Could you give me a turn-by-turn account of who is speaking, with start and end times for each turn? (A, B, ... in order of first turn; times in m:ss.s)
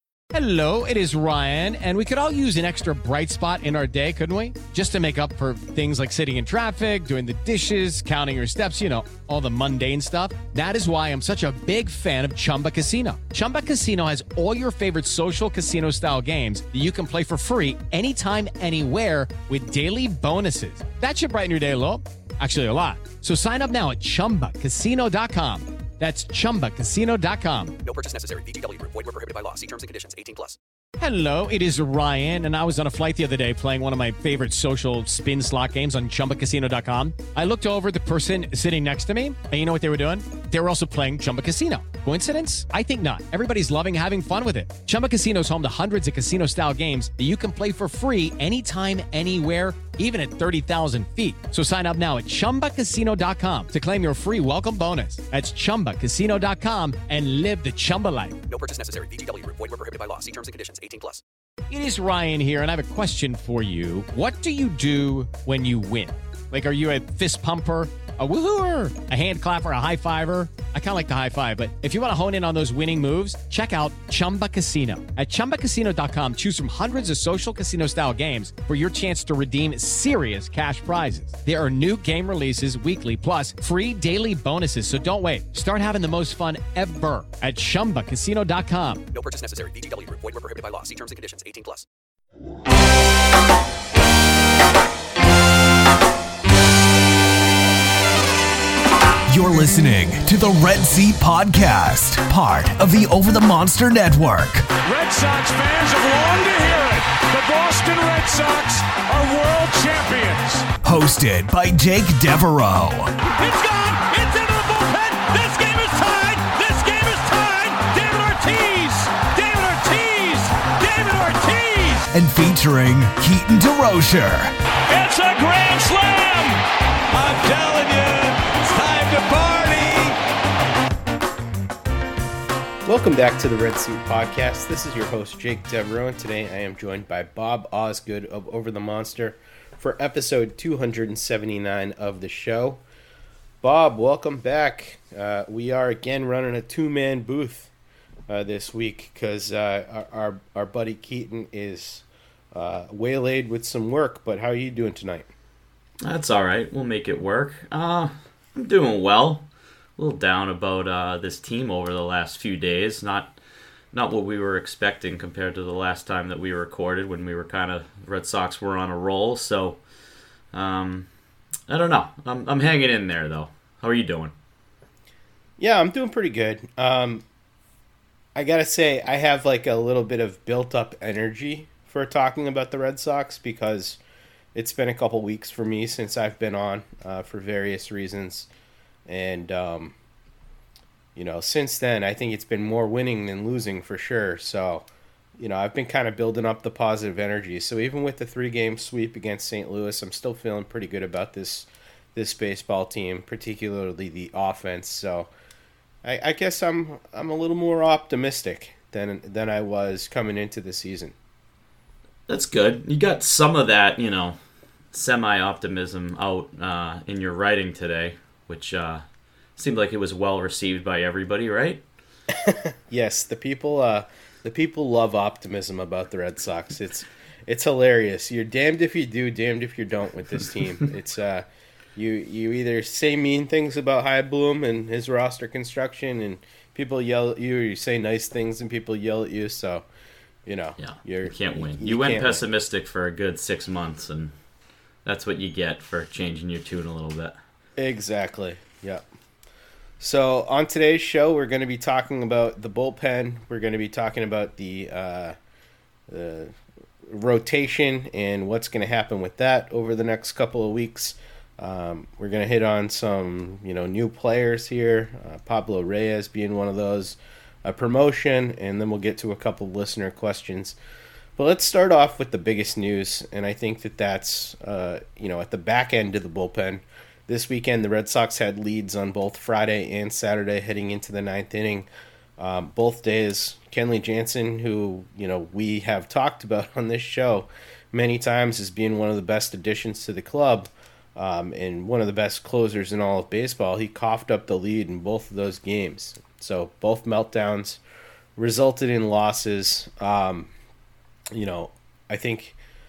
0:00.3-0:27.8 A
0:27.8-0:30.6 B
0:31.0-0:58.4 A
0:58.5-1:01.2 B
1:01.7-1:29.1 A
1:29.1-1:31.9 B
1:39.3-1:44.7 C
1:44.8-1:50.7 D
1:50.8-1:53.1 C
1:53.3-2:02.1 D
2:02.1-2:04.5 C
2:04.9-2:10.2 D
2:12.8-2:22.8 E
2:23.6-2:27.7 E
2:28.3-2:35.3 E
2:36.0-2:43.4 F
2:43.9-2:49.8 F
2:50.5-2:51.1 F
2:51.7-2:54.3 F
2:55.6-2:57.2 E
2:58.4-3:04.0 E
3:04.5-3:08.5 E
3:09.1-3:10.0 E
3:11.2-3:14.8 E
3:15.4-3:25.3 E
3:26.0-3:31.2 E
3:32.3-3:34.4 F
3:34.9-3:39.0 F
3:39.6-3:41.8 F
3:42.3-3:59.9 E
4:00.5-4:02.4 E
4:00.8-4:04.3 F
4:05.0-4:07.4 F
4:07.8-4:09.0 E
4:10.0-4:15.4 E
4:16.1-4:30.8 E
4:31.4-4:57.8 E
4:58.4-5:00.5 E
5:01.3-5:02.6 E